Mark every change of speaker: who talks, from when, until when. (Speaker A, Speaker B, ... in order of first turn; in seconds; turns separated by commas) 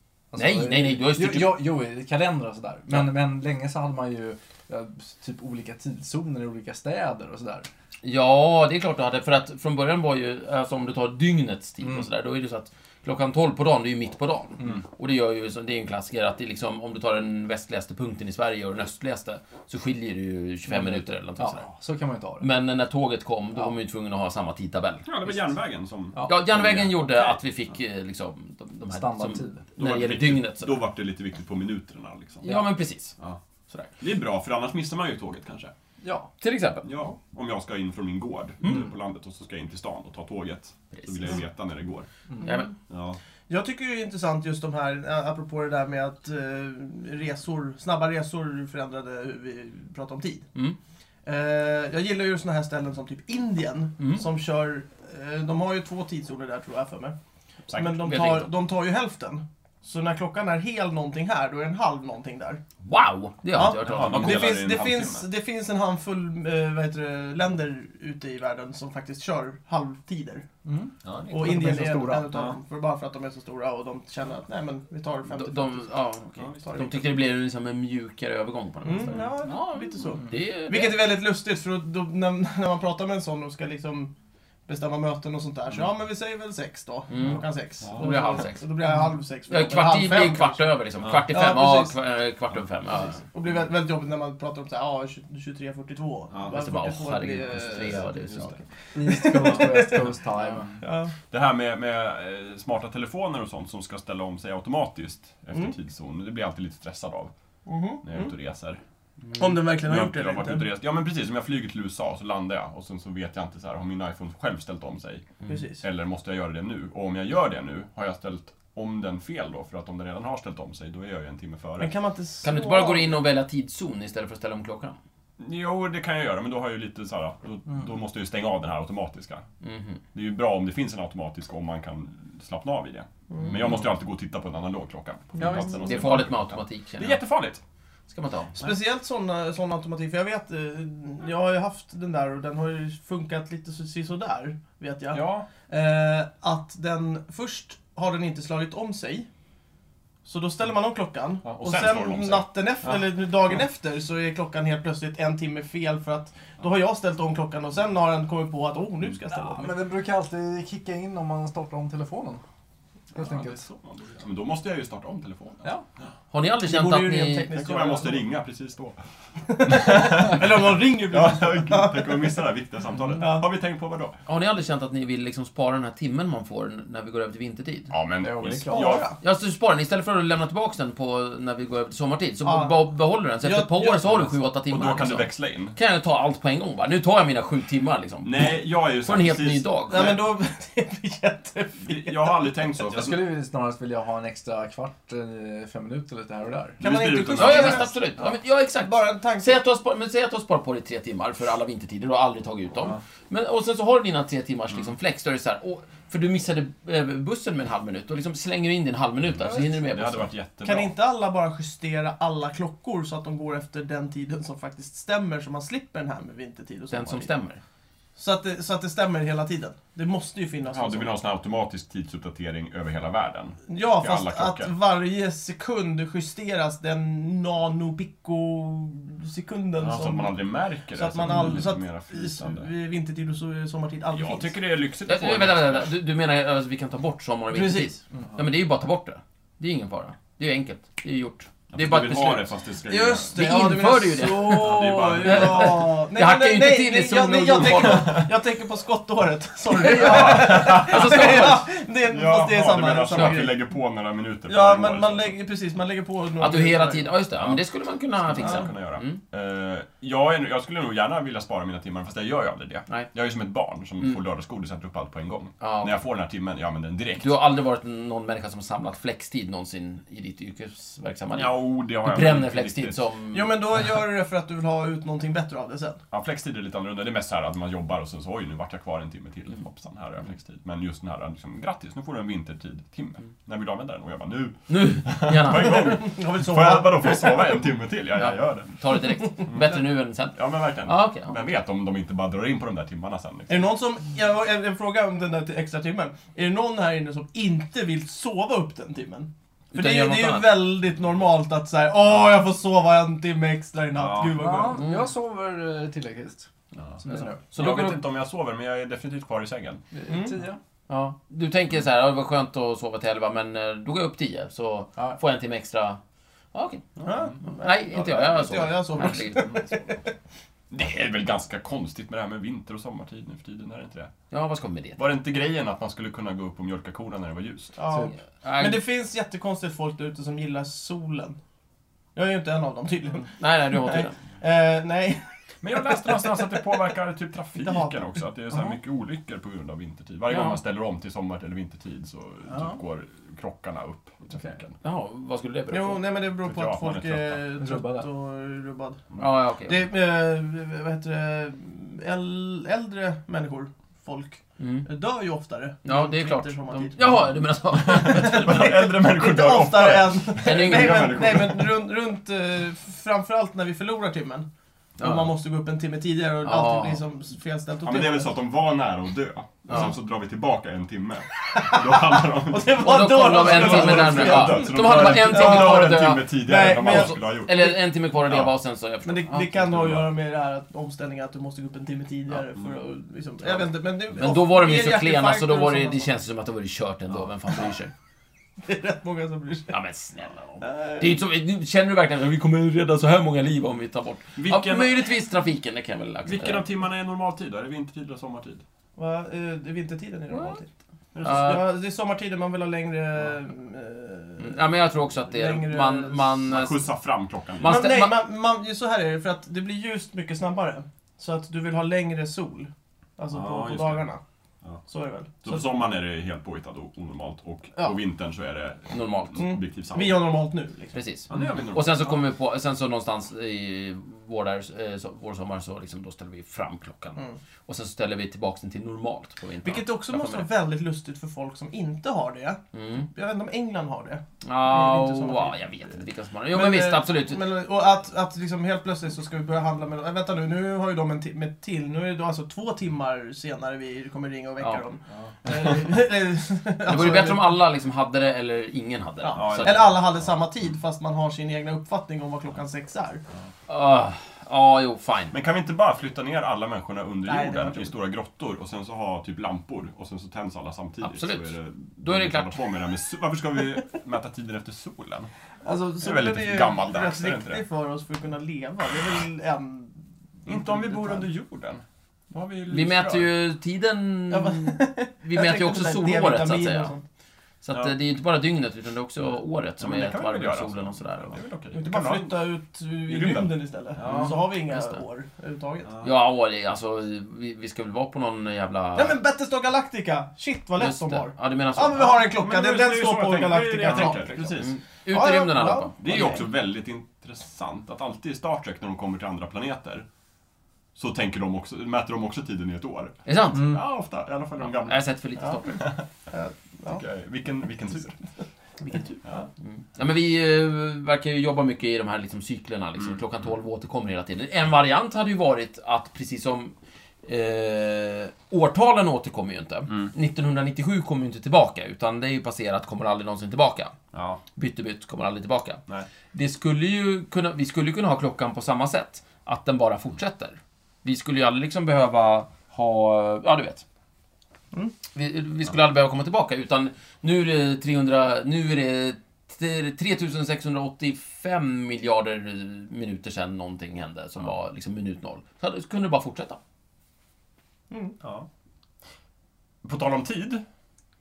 Speaker A: 0.3-7.7, Speaker B: 0.4-1.6, Speaker B: 8.0-21.7, Speaker A: 11.8-12.1, Speaker A: 20.7-22.5, Speaker B: 22.4-25.4, Speaker C: 25.1-27.3, Speaker A: 26.1-26.4, Speaker B: 26.2-30.7, Speaker A: 28.9-29.6, Speaker C: 29.8-32.5, Speaker B: 32.4-33.1, Speaker C: 34.0-35.7, Speaker A: 36.0-36.3, Speaker B: 36.4-36.9, Speaker C: 36.9-42.1, Speaker B: 40.9-41.4, Speaker B: 42.4-42.7, Speaker C: 42.9-43.2, Speaker D: 43.5-50.5, Speaker D: 51.2-57.2, Speaker B: 54.0-54.2, Speaker B: 57.7-58.5, Speaker D: 57.7-62.6, Speaker B: 62.9-64.6, Speaker D: 63.5-70.5, Speaker C: 63.8-65.3, Speaker A: 70.7-72.4, Speaker C: 71.0-71.4, Speaker D: 71.3-75.9, Speaker B: 75.3-81.0, Speaker C: 76.4-77.1, Speaker D: 76.6-76.9, Speaker D: 78.8-84.1, Speaker C: 79.1-79.3, Speaker D: 84.7-90.7, Speaker B: 87.1-88.7, Speaker C: 87.8-88.1, Speaker B: 89.5-93.2, Speaker C: 91.0-91.2, Speaker D: 91.3-91.9, Speaker D: 93.2-98.1, Speaker B: 96.5-98.6, Speaker C: 98.3-98.5, Speaker A: 99.0-100.8, Speaker D: 99.0-100.2, Speaker D: 100.8-101.1, Speaker C: 101.3-107.3, Speaker D: 107.7-108.3, Speaker C: 108.0-108.8, Speaker D: 109.3-110.7, Speaker C: 109.8-121.9, Speaker D: 115.5-115.8, Speaker D: 121.8-123.2, Speaker B: 122.4-125.0, Speaker C: 125.4-129.5, Speaker B: 129.6-130.0, Speaker C: 130.1-137.6, Speaker D: 133.3-133.8, Speaker A: 135.4-136.1, Speaker B: 135.8-137.2, Speaker B: 138.1-138.6, Speaker D: 138.6-149.3, Speaker C: 145.1-145.5, Speaker D: 150.2-159.7, Speaker C: 151.4-153.0, Speaker A: 159.3-162.4, Speaker C: 163.1-165.6, Speaker A: 163.2-163.6, Speaker B: 166.3-167.5, Speaker D: 166.6-168.3, Speaker C: 167.5-169.0, Speaker D: 169.5-172.4, Speaker C: 169.6-174.2, Speaker D: 173.2-173.5, Speaker B: 174.3-177.9, Speaker C: 177.9-179.1, Speaker A: 178.2-179.0, Speaker D: 178.7-179.2, Speaker B: 179.2-190.2, Speaker D: 182.4-182.8, Speaker D: 183.4-184.3, Speaker C: 184.7-185.8, Speaker C: 188.2-190.2, Speaker D: 189.9-192.4, Speaker C: 191.8-193.2, Speaker A: 192.9-196.8, Speaker D: 196.8-198.0, Speaker C: 196.8-198.0, Speaker B: 197.4-210.3, Speaker D: 198.8-199.6, Speaker C: 209.8-210.9, Speaker D: 210.6-217.3, Speaker B: 216.9-217.6, Speaker D: 218.2-221.2, Speaker C: 220.7-224.7, Speaker D: 223.7-230.4, Speaker C: 229.8-232.7, Speaker D: 230.9-234.6, Speaker C: 234.1-235.9, Speaker B: 235.1-242.5, Speaker D: 237.5-237.9, Speaker C: 241.7-243.4, Speaker D: 242.9-253.6, Speaker B: 243.3-248.2, Speaker C: 244.4-245.9, Speaker C: 247.5-248.3, Speaker B: 249.8-251.7, Speaker C: 249.9-251.5, Speaker C: 252.1-255.4, Speaker D: 254.5-257.1, Speaker B: 256.4-259.2, Speaker C: 257.4-267.4, Speaker D: 258.4-258.7, Speaker B: 265.6-265.9, Speaker B: 267.2-273.6, Speaker C: 271.3-273.0, Speaker D: 273.3-276.0, Speaker C: 276.1-288.8, Speaker B: 284.7-286.1, Speaker D: 285.6-287.5, Speaker B: 288.2-291.4, Speaker C: 289.5-289.8, Speaker C: 290.3-293.7, Speaker D: 293.5-304.9, Speaker B: 299.7-300.6, Speaker C: 303.9-304.4, Speaker A: 304.3-306.5, Speaker A: 307.0-307.4, Speaker B: 307.1-308.0, Speaker C: 307.5-309.8, Speaker A: 309.9-310.6, Speaker D: 310.1-310.4, Speaker B: 310.9-316.0, Speaker B: 316.5-316.9, Speaker D: 317.0-320.1, Speaker C: 317.0-317.3, Speaker B: 317.5-319.8, Speaker C: 320.7-324.1, Speaker B: 324.3-325.0, Speaker C: 325.0-327.8, Speaker D: 327.8-331.4, Speaker B: 328.4-328.8, Speaker D: 332.1-336.5, Speaker B: 333.4-334.2, Speaker C: 335.6-344.8, Speaker D: 337.6-338.0, Speaker B: 340.3-340.6, Speaker A: 342.5-342.8, Speaker B: 344.8-346.0, Speaker D: 345.7-349.0, Speaker C: 346.4-347.4, Speaker A: 347.6-348.1, Speaker B: 349.2-349.8, Speaker D: 349.6-357.3, Speaker B: 354.6-354.9, Speaker B: 355.9-358.7, Speaker C: 357.7-361.8, Speaker D: 357.8-364.5, Speaker B: 360.4-361.2, Speaker B: 365.0-365.3, Speaker D: 365.0-368.3, Speaker B: 366.4-367.0, Speaker C: 367.8-378.5, Speaker B: 369.7-369.9, Speaker D: 371.5-377.8, Speaker B: 372.7-380.0, Speaker D: 379.1-386.1, Speaker B: 384.1-387.9, Speaker D: 388.6-389.8, Speaker B: 389.7-396.7, Speaker D: 390.6-391.2, Speaker C: 394.4-395.1, Speaker C: 396.2-398.6, Speaker D: 399.0-400.7, Speaker B: 400.3-400.6, Speaker C: 401.1-401.6, Speaker B: 401.2-401.6, Speaker D: 401.2-404.7, Speaker B: 404.4-406.8, Speaker D: 405.2-406.4, Speaker C: 406.5-407.8, Speaker B: 407.6-408.2, Speaker D: 407.6-414.2, Speaker C: 413.3-414.0, Speaker D: 414.9-415.8, Speaker C: 415.4-420.2, Speaker B: 418.9-419.4, Speaker D: 419.4-421.0, Speaker B: 420.9-430.5, Speaker C: 421.3-422.2, Speaker D: 429.6-435.7, Speaker B: 432.7-433.1, Speaker B: 434.4-437.4, Speaker D: 436.5-447.6, Speaker C: 445.1-445.7, Speaker B: 446.9-449.9, Speaker D: 449.2-453.2, Speaker C: 449.4-450.0, Speaker B: 453.7-455.4, Speaker C: 455.3-465.3, Speaker D: 457.3-457.9, Speaker B: 461.0-462.6, Speaker D: 465.6-471.3, Speaker C: 466.0-467.6, Speaker C: 470.5-473.3, Speaker B: 472.7-476.9, Speaker D: 474.3-477.1, Speaker B: 477.6-481.4, Speaker C: 479.8-482.4, Speaker D: 481.7-485.9, Speaker C: 483.1-484.5, Speaker B: 484.1-485.0, Speaker C: 485.8-486.1, Speaker B: 486.0-489.2, Speaker D: 488.9-496.4, Speaker B: 490.8-492.2, Speaker C: 492.0-494.8, Speaker B: 493.9-496.4, Speaker C: 496.0-500.1, Speaker C: 500.9-505.0, Speaker B: 503.3-503.8, Speaker B: 504.8-505.9, Speaker C: 505.8-506.0, Speaker D: 506.3-507.0, Speaker C: 506.9-508.2, Speaker B: 508.8-524.0, Speaker C: 524.1-524.4, Speaker B: 524.6-525.8, Speaker B: 526.3-533.8, Speaker B: 535.1-546.6, Speaker D: 547.9-548.2, Speaker C: 548.2-548.5, Speaker C: 549.8-550.6